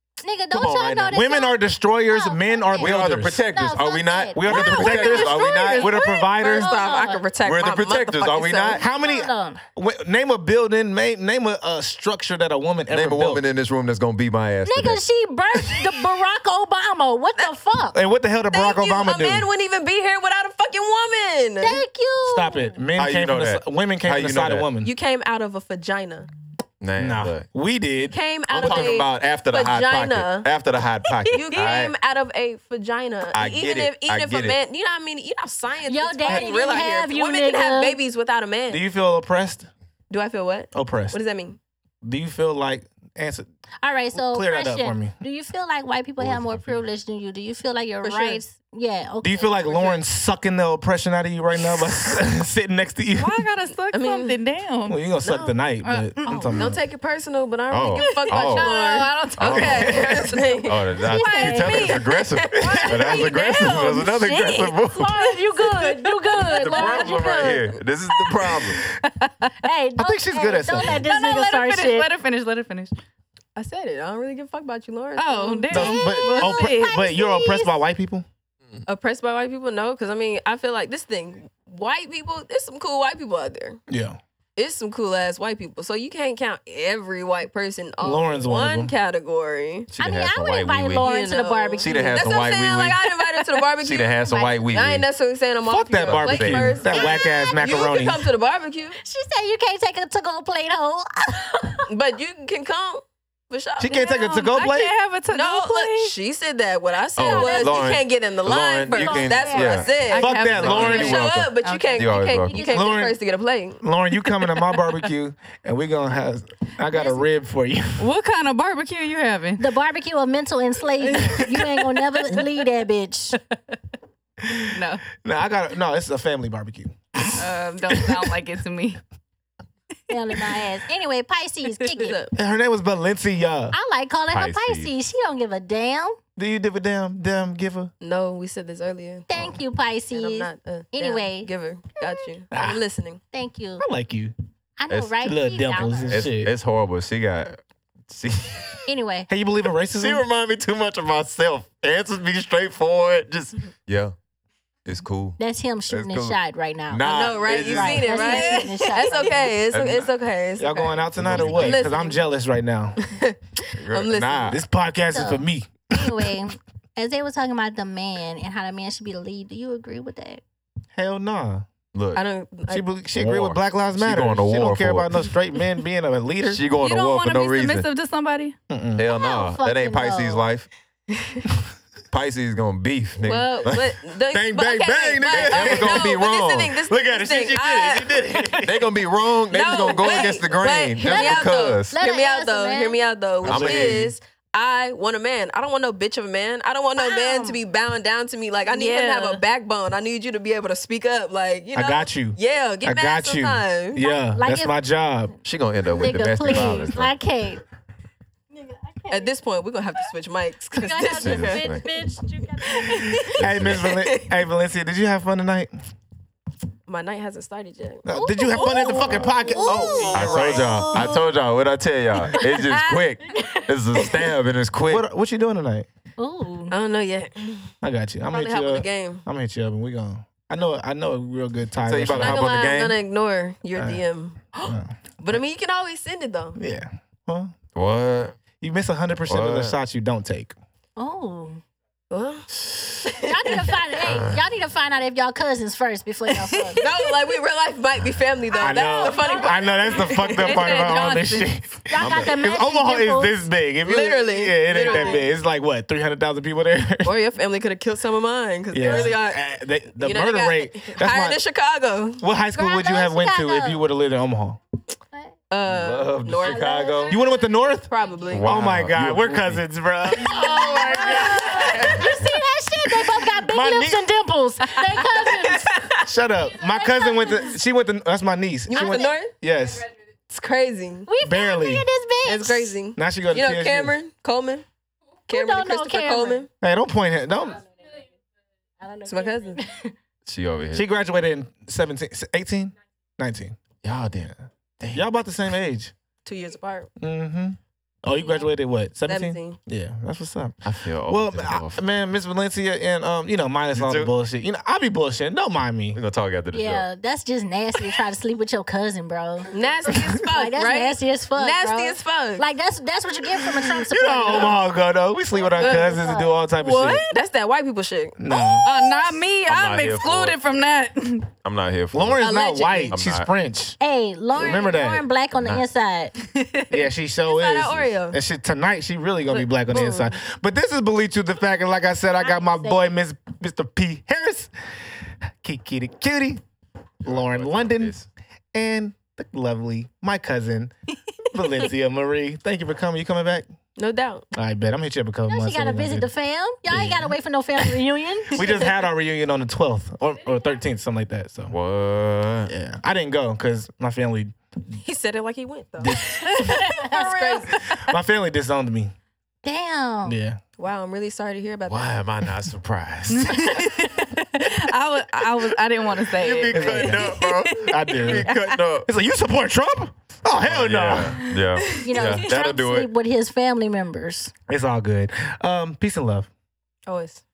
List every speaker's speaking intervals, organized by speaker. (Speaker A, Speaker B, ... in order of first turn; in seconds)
Speaker A: 0.2-5.3, 6.5-7.2, 8.8-9.6, 14.6-18.0, 21.6-22.8, 35.9-38.0, 43.8-49.9, 61.0-62.0, 63.1-67.8, 69.6-72.1, 75.7-77.7, 90.0-92.2, 96.9-97.8, 99.0-101.9, 107.2-107.8, 108.9-109.9, 112.5-113.0, 116.9-117.2, 119.6-123.4, 130.1-132.1, 133.7-136.2, 139.3-142.2, 143.3-143.8, 144.8-146.2, 148.9-149.3, 155.4-159.5, 165.1-170.4, 179.1-180.5, 191.0-193.0, 196.9-197.6, 204.2-204.8, 205.9-207.6, 208.5-209.4, 210.7-213.4, 218.1-221.1, 222.3-223.6, 226.2-226.7, 241.0-241.6, 243.2-246.8, 248.5-250.3, 251.9-253.4, 254.9-255.2, 262.5-263.8, 266.4-267.3, 270.2-275.8, 276.5-277.5, 278.7-279.1, 281.1-282.7, 285.3-286.4, 287.7-288.0, 288.8-289.9, 298.1-298.5, 306.5-314.6, 315.3-316.4, 323.8-326.1, 332.3-332.9, 345.3-348.4, 356.3-357.4, 359.4-360.2, 371.8-374.3
Speaker B: 0.5-3.4, 4.3-6.7, 8.8-13.4, 17.9-19.5, 22.2-24.9, 27.0-29.0, 38.7-39.7, 40.7-41.2, 42.0-43.5, 44.1-45.1, 49.2-53.4, 54.9-56.8, 59.5-60.3, 62.5-63.2, 70.0-71.1, 75.7-78.2, 83.9-84.2, 88.0-88.9, 95.6-98.3, 103.8-104.9, 110.2-111.2, 112.7-113.2, 113.8-118.1, 125.1-128.4, 132.3-133.7, 136.3-137.9, 142.5-142.8, 143.8-144.3, 145.2-146.5, 149.3-150.2, 160.6-163.0, 164.5-165.8, 170.9-171.7, 172.7-176.6, 178.7-179.0, 184.3-186.1, 186.9-188.7, 193.4-194.1, 201.7-205.3, 213.4-215.7, 218.0-221.0, 224.8-225.9, 227.8-232.4, 233.8-234.0, 234.6-234.9, 236.6-237.5, 238.6-240.6, 248.6-257.1, 258.7-261.4, 262.2-264.6, 267.1-272.3, 272.9-274.1, 276.0-279.9, 281.2-281.9, 282.9-283.9, 286.6-287.6, 290.7-293.6, 294.9-295.9, 297.0-306.0, 313.6-317.0, 318.2-318.7, 321.9-323.8, 324.3-325.1, 326.7-334.5, 335.4-336.4, 337.0-338.0, 338.5-340.7, 341.3-343.5, 344.3-346.1, 346.7-347.0, 348.3-351.5, 352.5-354.3, 355.8-356.1, 357.7-358.9, 360.1-360.4, 366.5-368.3, 368.8-371.2, 374.5-376.3
Speaker C: 2.8-5.9, 7.4-8.8, 12.9-15.0, 23.0-24.7, 26.8-27.4, 28.5-31.9, 33.3-34.6, 46.2-46.6, 57.7-58.7, 59.4-65.3, 66.5-68.9, 89.9-91.1, 91.8-93.1, 93.8-95.0, 96.0-96.9, 107.2-112.6, 134.3-134.9, 144.9-145.2, 146.0-148.9, 149.9-154.1, 154.8-155.4, 155.9-156.4, 156.9-158.5, 159.7-160.1, 161.1-161.9, 163.8-164.6, 171.9-172.2, 173.2-175.1, 176.4-177.9, 178.9-180.7, 182.1-183.9, 185.3-186.7, 188.6-191.9, 193.4-194.1, 205.4-207.1, 211.1-211.8, 213.4-213.8, 220.1-225.0, 231.8-232.9, 237.7-238.4, 239.3-239.8, 244.0-244.4, 252.0-252.3, 265.6-267.2, 268.3-269.6, 290.2-290.9, 293.8-295.0, 300.6-301.8, 303.7-304.1, 305.9-306.9, 319.4-320.4, 321.4-322.2, 322.9-323.3, 325.4-325.6, 337.0-338.1, 351.5-352.5, 361.6-363.7, 366.0-368.9, 370.4-372.9
Speaker D: 4.5-8.8, 18.5-21.8, 24.8-26.3, 28.1-30.5, 31.3-38.8, 40.1-41.6, 48.0-48.4, 49.7-50.0, 53.9-54.4, 55.2-55.5, 56.5-63.4, 65.9-67.1, 73.5-75.8, 78.8-83.8, 84.6-89.9, 91.0-99.0, 101.9-104.7, 105.3-113.8, 132.0-132.3, 138.0-139.3, 140.1-143.2, 157.0-162.2, 163.0-164.6, 172.1-172.8, 181.1-181.4, 183.2-188.6, 189.5-204.1, 209.1-211.8, 212.6-214.3, 216.9-218.0, 219.0-221.1, 226.7-227.7, 228.3-229.2, 232.2-236.6, 242.1-242.5, 243.0-243.8, 246.8-250.8, 253.8-255.3, 257.0-259.4, 260.0-262.2, 265.5-267.1, 267.9-268.5, 270.3-271.9, 274.9-276.0, 278.7-279.3, 280.3-281.1, 282.2-284.6, 285.3-286.5, 289.1-289.6, 296.2-296.9, 299.1-299.6, 309.5-312.4, 315.6-316.0, 317.1-318.2, 322.2-323.0, 324.3-324.7, 327.2-328.2, 329.3-330.1, 343.8-344.2, 348.4-348.6, 354.8-357.6, 360.6-362.0, 376.9-377.2
Speaker E: 31.1-31.4, 53.2-55.0, 55.8-56.6, 57.9-60.2, 63.1-64.5, 66.7-67.1, 69.0-69.5, 70.8-73.0, 75.2-76.9, 103.9-106.1, 110.0-112.1, 118.0-119.7, 124.7-125.0, 127.4-129.0, 158.4-158.9, 176.8-178.6, 198.7-199.4, 250.4-251.6, 274.9-275.3, 316.6-317.2, 318.4-321.3, 326.3-326.9, 356.1-357.8, 363.1-368.6, 371.2-371.8